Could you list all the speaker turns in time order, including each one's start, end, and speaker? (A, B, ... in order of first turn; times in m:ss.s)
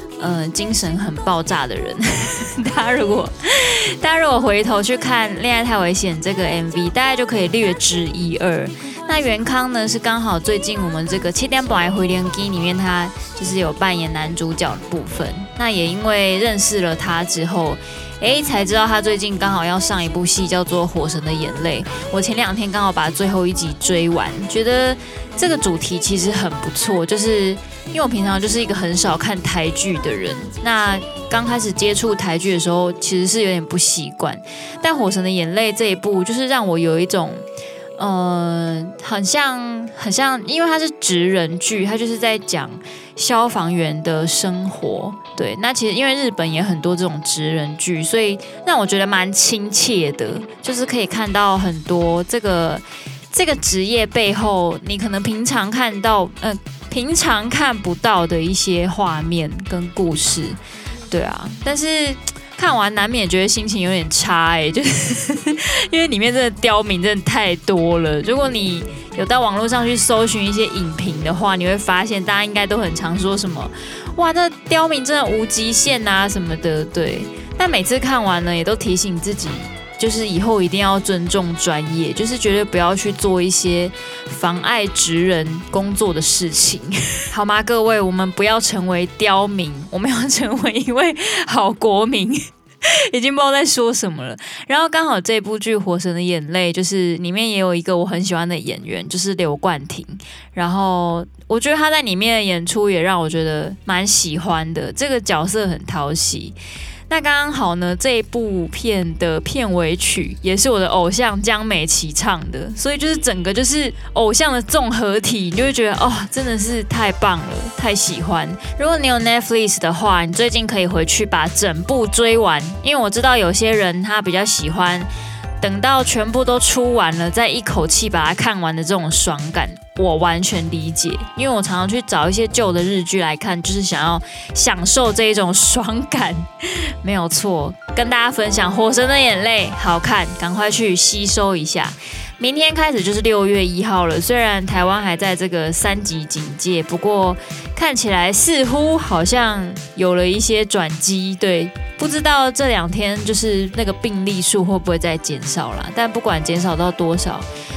0:00.2-0:37.4 A
0:38.0-1:00.6 A
1:01.1-1:46.6 A
1:47.1-2:05.1 A
2:05.6-2:16.5 A
2:17.0-2:37.4 A